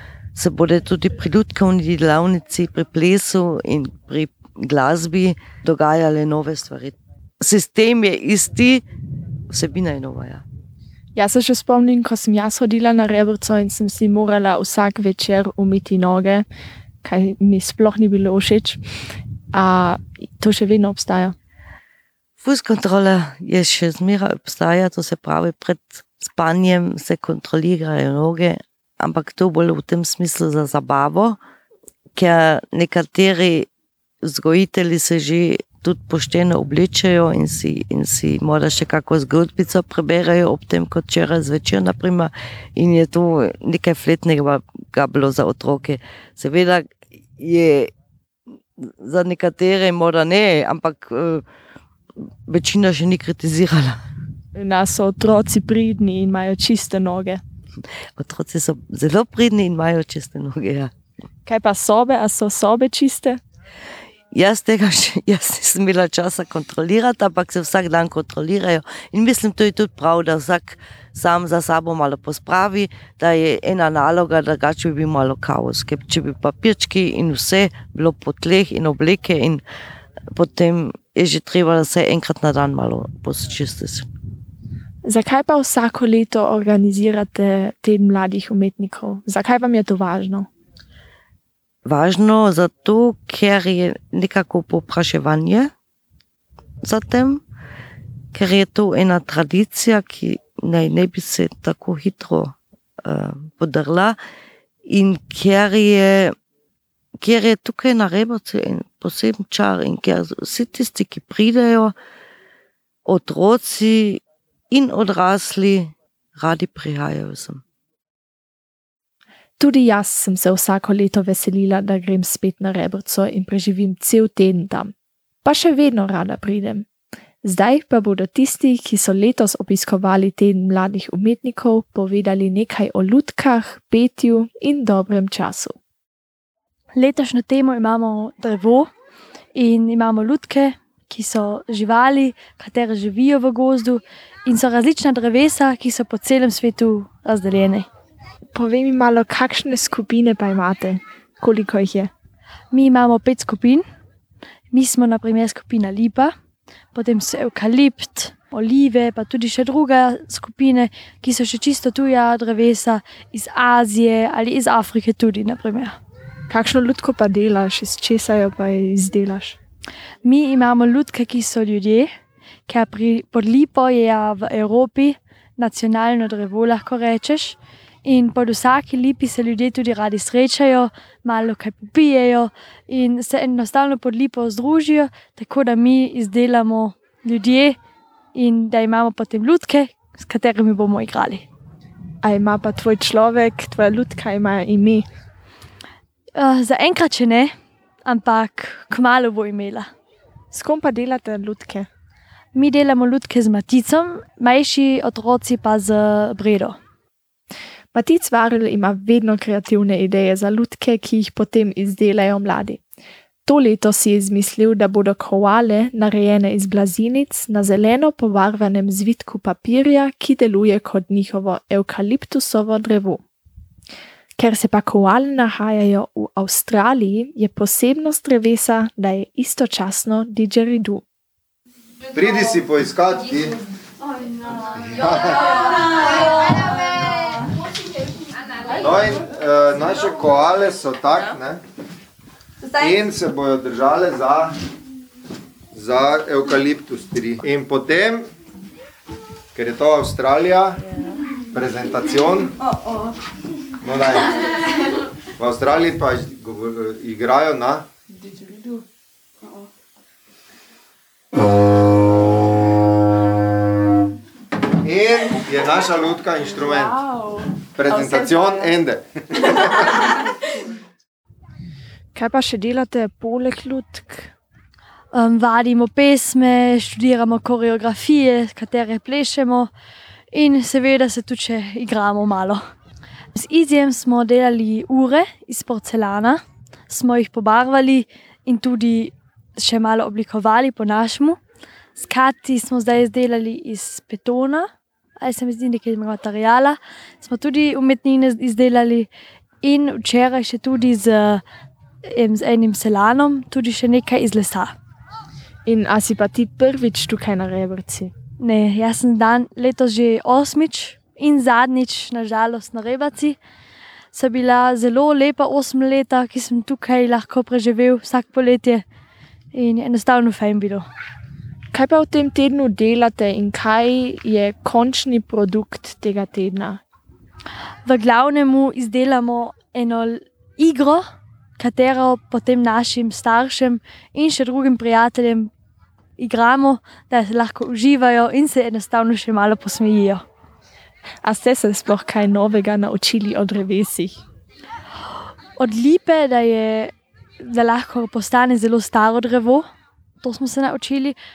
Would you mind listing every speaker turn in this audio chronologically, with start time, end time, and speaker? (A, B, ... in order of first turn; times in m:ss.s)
0:00.3-0:08.8 A
0:09.5-0:10.4 A
0:11.2-0:16.5 B
0:17.0-0:18.8 B
0:19.5-0:21.4 B
0:22.4-0:31.4 A
0:32.2-0:33.7 A
0:34.2-0:47.9 A
0:48.8-0:51.4 A
0:52.5-0:54.0 A
0:54.6-0:57.4 B
0:58.2-1:00.9 A
1:01.5-1:03.4 B
1:04.3-1:19.6 A
1:20.4-1:24.1 A
1:25.0-1:30.5 B
1:31.8-1:35.7 A
1:36.8-1:37.4 A
1:38.3-1:44.2 A
1:44.9-1:46.3 A
1:47.2-1:51.9 A
1:53.1-1:57.6 A
1:59.6-2:04.9 B
2:05.4-2:06.9 B
2:07.4-2:15.8 B
2:17.0-2:18.9 C
2:19.6-2:27.9 C
2:28.6-2:32.1 B
2:32.7-2:33.8 C
2:34.7-2:36.3 C
2:36.9-2:46.0 C
2:46.5-2:49.6 B
2:50.2-2:52.1 C
2:52.7-3:07.8 C
3:08.3-3:11.5 C
3:12.2-3:15.1 B
3:16.4-3:17.5 C
3:18.1-3:19.9 C
3:20.5-3:21.9 B
3:22.5-3:26.8 C
3:27.9-3:32.8 B
3:33.5-3:43.2 B
3:44.4-3:51.0 B
3:52.1-3:53.6 D
3:54.8-3:55.6 D
3:58.8-4:01.6 D
4:02.7-4:04.6 D
4:05.7-4:08.3 D
4:09.6-4:10.8 D
4:11.5-4:12.5 D
4:13.8-4:14.3 D
4:15.4-4:17.9 D
4:24.8-4:27.0 D
4:27.8-4:30.0 D
4:32.2-4:34.3 B
4:35.1-4:39.7 C
4:40.3-4:42.6 C
4:43.3-4:51.4 C
4:52.0-4:54.7 C
4:55.2-4:59.1 C
4:59.6-5:01.4 C
5:02.1-5:04.8 C
5:05.7-5:08.1 B
5:08.4-5:13.4 C
5:14.1-5:18.8 C
5:19.5-5:20.8 C
5:21.7-5:26.8 B
5:27.9-5:31.0 C
5:31.6-5:35.5 C
5:36.2-5:40.2 C
5:41.2-5:44.2 B
5:45.6-5:49.6 C
5:50.2-5:51.2 C